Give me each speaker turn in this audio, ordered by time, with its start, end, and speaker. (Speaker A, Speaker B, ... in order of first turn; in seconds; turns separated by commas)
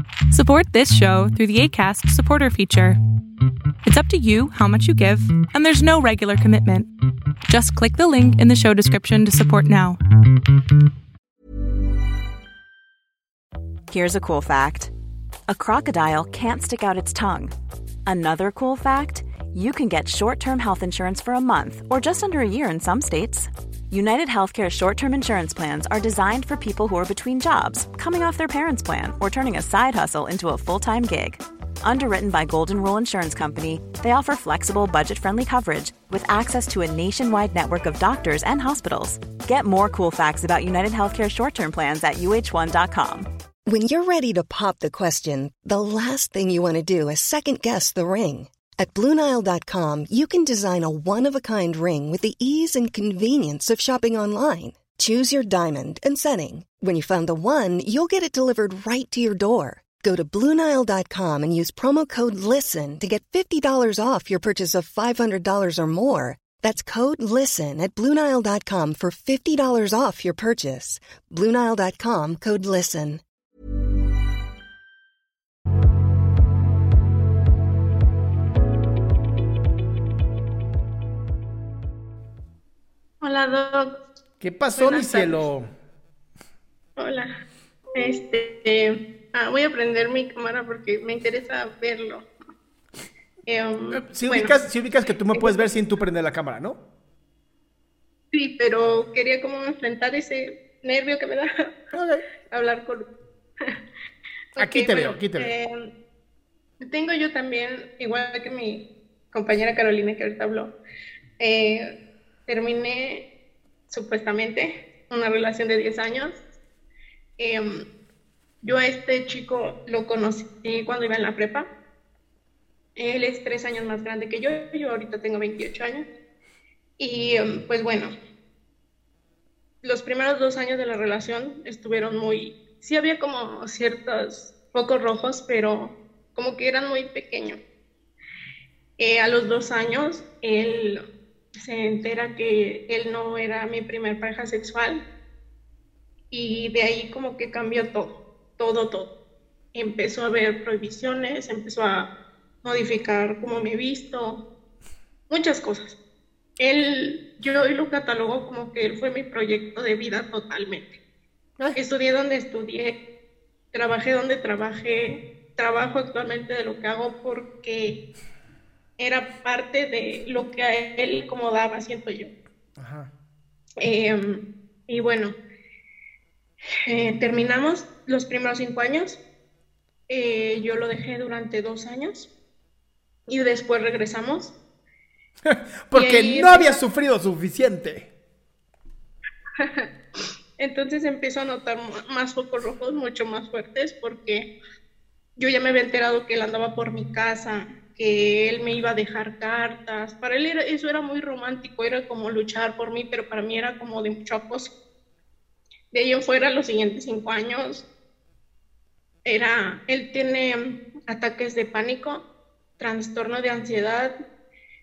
Speaker A: 0.3-3.0, Speaker A: 3.8-6.9, Speaker A: 7.5-10.0, Speaker B: 13.9-14.9, Speaker B: 15.5-17.5, Speaker B: 18.1-43.3, Speaker C: 43.7-73.2, Speaker D: 83.2-84.0, Speaker E: 84.4-85.7, Speaker D: 84.8-85.5, Speaker D: 87.0-87.3, Speaker D: 88.0-92.3, Speaker D: 93.5-94.6, Speaker E: 93.9-96.8, Speaker D: 95.3-95.6, Speaker D: 98.3-101.5, Speaker E: 101.9-102.2, Speaker D: 102.5-103.1, Speaker D: 104.5-105.9, Speaker E: 104.6-105.5, Speaker D: 106.8-110.8, Speaker D: 111.4-113.3, Speaker D: 113.9-116.4, Speaker D: 117.4-117.8, Speaker D: 118.6-121.7, Speaker D: 123.0-126.1, Speaker D: 127.0-128.1, Speaker D: 129.8-137.6, Speaker D: 139.0-141.0, Speaker D: 141.6-145.0, Speaker D: 146.3-149.1, Speaker D: 149.7-152.1, Speaker D: 152.6-154.5, Speaker D: 155.3-156.0, Speaker D: 156.6-161.0, Speaker D: 161.8-163.0, Speaker D: 163.7-168.0, Speaker D: 169.0-172.3, Speaker E: 172.8-173.1, Speaker D: 173.8-175.4, Speaker D: 176.9-179.2, Speaker D: 180.1-182.3, Speaker D: 183.3-184.5, Speaker E: 185.5-188.1, Speaker D: 185.9-186.8, Speaker D: 189.6-189.9, Speaker D: 190.6-194.5, Speaker D: 195.4-204.7, Speaker D: 205.9-207.9, Speaker D: 209.2-212.2, Speaker D: 212.8-214.2